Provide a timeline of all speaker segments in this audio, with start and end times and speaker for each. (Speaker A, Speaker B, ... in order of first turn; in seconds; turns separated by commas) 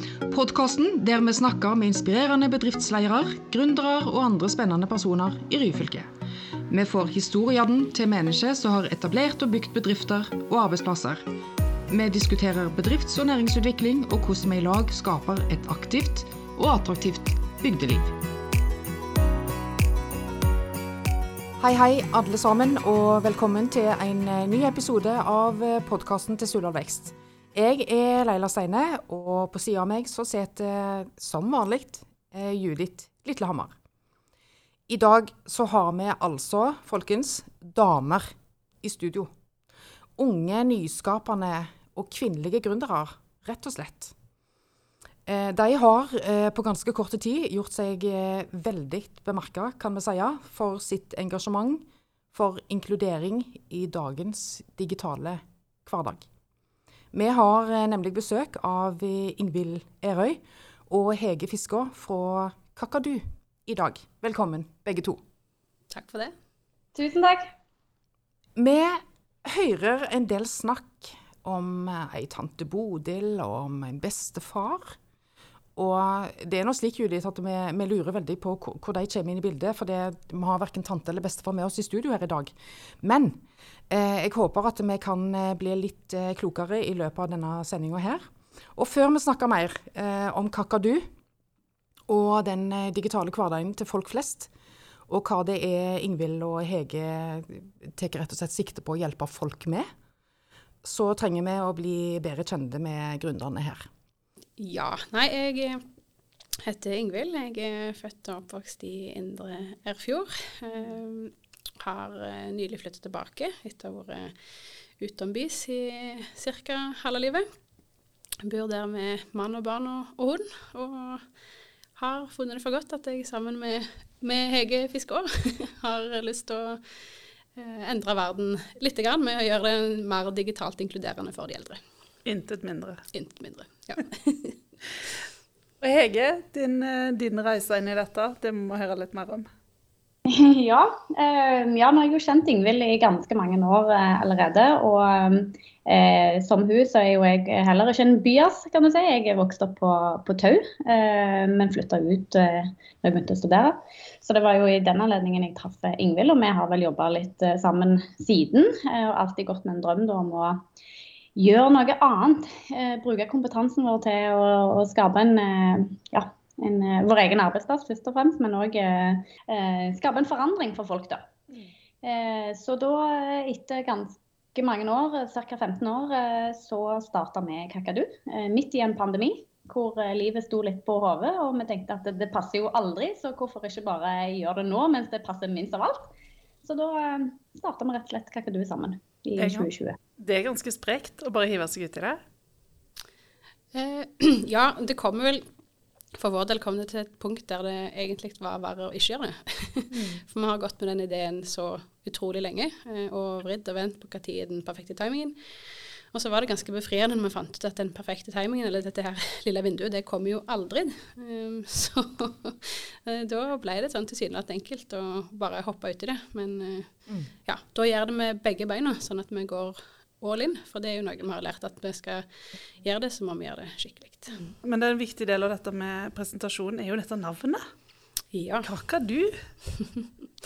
Speaker A: 0.3-6.1, Speaker A: 6.7-11.2, Speaker A: 11.9-18.1, Speaker A: 21.6-33.7, Speaker A: 34.9-38.3, Speaker A: 38.8-39.3, Speaker A: 40.2-44.1, Speaker A: 45.2-56.2, Speaker A: 57.1-65.2, Speaker B: 65.9-66.3, Speaker C: 66.9-67.5, Speaker A: 68.5-75.0, Speaker A: 75.8-91.1, Speaker A: 92.1-94.5, Speaker A: 95.1-99.8, Speaker A: 100.8-103.9, Speaker B: 104.6-105.8, Speaker B: 106.6-114.3, Speaker B: 115.0-117.4, Speaker B: 118.4-121.2, Speaker B: 122.0-126.8, Speaker B: 127.5-131.8, Speaker D: 132.2-133.0, Speaker B: 133.1-134.6, Speaker D: 135.8-139.5, Speaker C: 140.2-160.6, Speaker C: 161.3-171.3, Speaker C: 172.0-186.1, Speaker C: 186.6-190.0, Speaker D: 189.4-189.7, Speaker D: 190.2-192.2, Speaker B: 193.7-195.4, Speaker B: 196.1-205.3, Speaker D: 199.9-200.2, Speaker B: 206.1-222.2, Speaker B: 222.8-224.5, Speaker D: 224.6-227.6, Speaker B: 228.3-228.7, Speaker D: 228.6-229.4, Speaker B: 229.8-230.1